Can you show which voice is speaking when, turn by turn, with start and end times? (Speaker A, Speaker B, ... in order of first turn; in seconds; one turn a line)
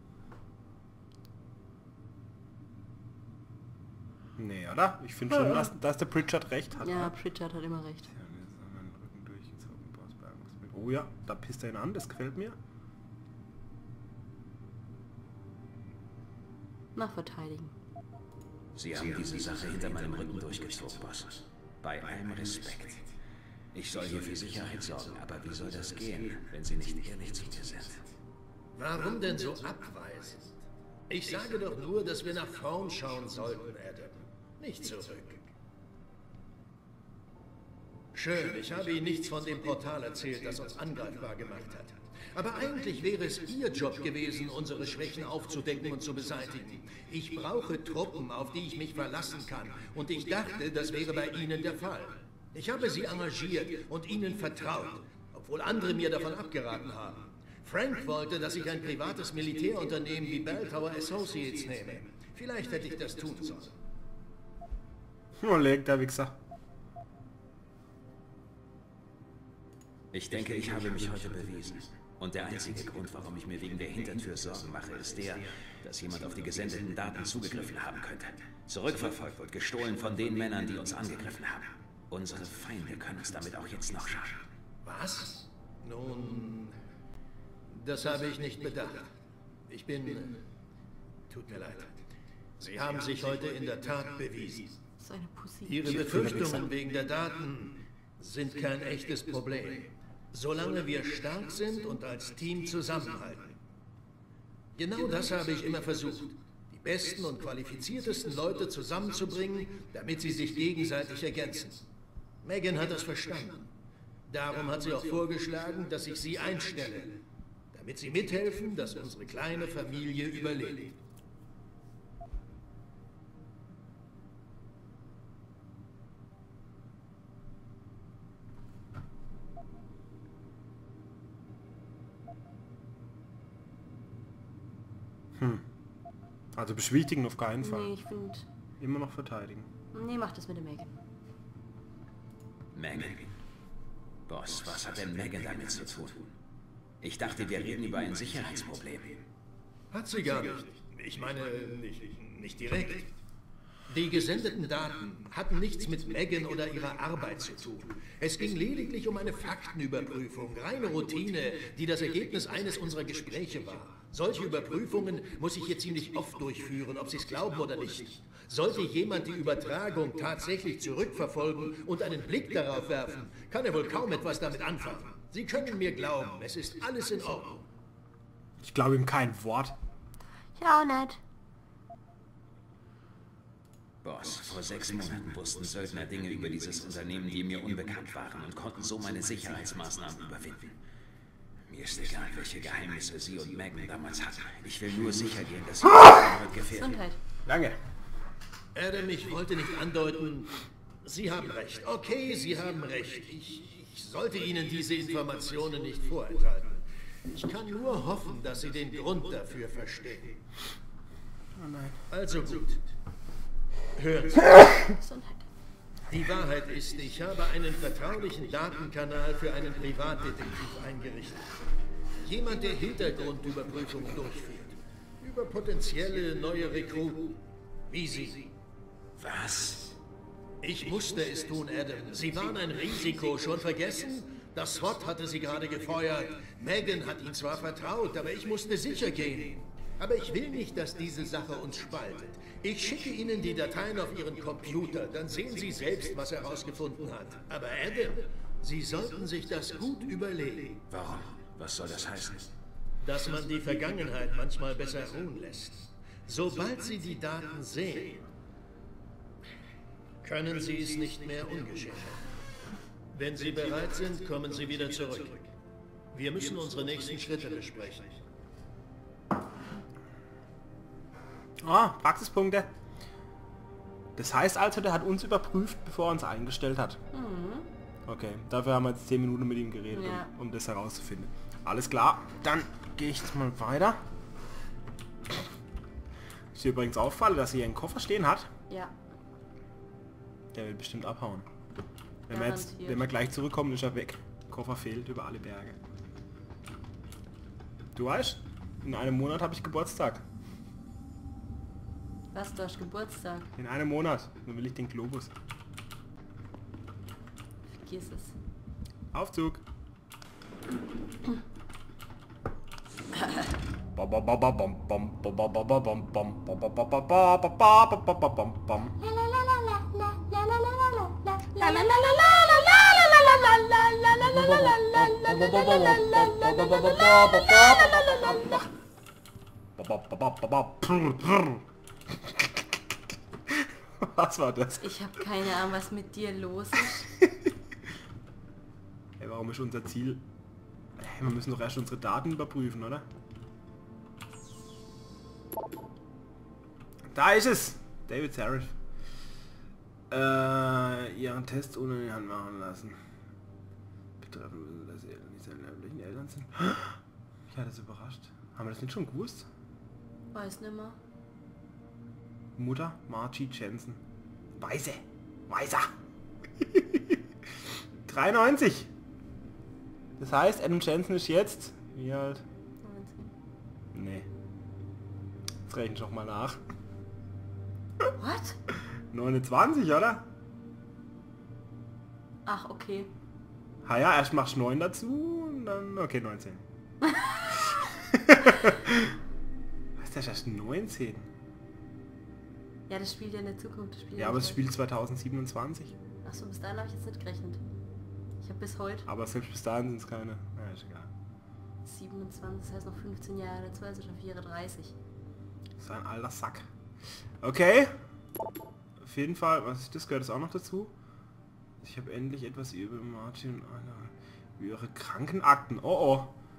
Speaker A: 4.4-7.1
Speaker B: 6.8-8.1
Speaker A: 8.1-12.6
Speaker B: 16.9-17.7
Speaker C: 18.8-23.0
Speaker C: 23.7-28.0
Speaker D: 28.8-30.5
Speaker D: 31.1-35.5
Speaker D: 38.1-63.8
Speaker A: 65.4-66.4
Speaker C: 70.1-84.4
Speaker D: 84.8-86.8
Speaker D: 87.7-89.1
Speaker D: 89.7-90.4
Speaker D: 91.3-92.0
Speaker D: 92.6-94.8
Speaker B: 95.0-96.2
Speaker D: 95.7-103.6
Speaker A: 95.8-96.7
Speaker D: 104.8-111.8
Speaker D: 112.4-113.7
Speaker D: 114.3-117.2
Speaker D: 117.7-121.0
Speaker A: 135.4-135.7
Speaker A: 136.5-137.9
Speaker B: 137.6-138.5
Speaker A: 138.8-139.7
Speaker B: 139.9-140.9
Speaker C: 142.7-143.3
Speaker C: 144.3-146.3
Speaker C: 147.0-149.2
Speaker D: 149.9-153.1
Speaker D: 153.9-177.6
Speaker A: 178.6-179.8
Speaker B: 180.6-181.2
Speaker C: 184.0-190.7
Speaker C: 191.7-197.0
Speaker B: 196.8-197.2
Speaker A: 197.5-197.8
Speaker D: 198.8-210.4
Speaker A: 211.6-212.0
Speaker D: 212.1-212.8
Speaker D: 214.0-214.8
Speaker B: 215.0-215.4
Speaker D: 216.1-221.5
Speaker D: 222.2-227.4
Speaker D: 227.9-228.5
Speaker C: 229.2-229.9
Speaker D: 230.6-250.8
Speaker C: 250.9-252.5
Speaker D: 253.0-258.2
Speaker D: 260.2-262.2
Speaker D: 263.1-265.5
Speaker D: 266.1-268.1
Speaker A: 271.6-272.7
Speaker A: 274.2-277.0
Speaker B: 277.1-277.7
Speaker A: 278.1-284.0
Speaker B: 279.9-280.3
Speaker A: 286.5-288.5
Speaker A: 290.5-291.5
Speaker A: 292.3-295.8
Speaker B: 292.3-293.1
Speaker A: 297.9-300.2
Speaker B: 302.3-303.5
Speaker A: 303.6-305.3
Speaker B: 307.7-308.3
Speaker A: 309.1-309.6
Speaker A: 313.9-319.0
Speaker A: 323.0-323.3
Speaker A: 323.9-328.2
Speaker A: 329.8-332.8
Speaker A: 333.5-334.9
Speaker B: 334.8-337.1
Speaker A: 337.0-337.5
Speaker A: 339.2-340.2
Speaker A: 341.0-343.1
Speaker A: 347.1-348.8
Speaker A: 350.1-353.0
Speaker A: 354.2-359.5
Speaker B: 360.3-361.0
Speaker A: 362.6-364.0
Speaker A: 364.5-365.9
Speaker A: 366.6-367.2
Speaker A: 368.1-368.9
Speaker A: 370.2-372.4
Speaker B: 372.8-373.3
Speaker A: 373.9-374.3
Speaker A: 375.7-376.6
Speaker B: 378.2-378.6
Speaker A: 379.1-380.3
Speaker B: 382.5-383.1
Speaker A: 383.8-386.6
Speaker A: 387.6-389.2
Speaker A: 390.0-391.3
Speaker B: 392.9-394.6
Speaker A: 394.2-396.0
Speaker B: 396.2-397.6
Speaker B: 398.4-399.1
Speaker A: 399.1-401.1
Speaker B: 401.8-404.9
Speaker A: 405.8-406.7
Speaker A: 407.4-408.0
Speaker A: 409.0-410.9
Speaker A: 411.8-416.4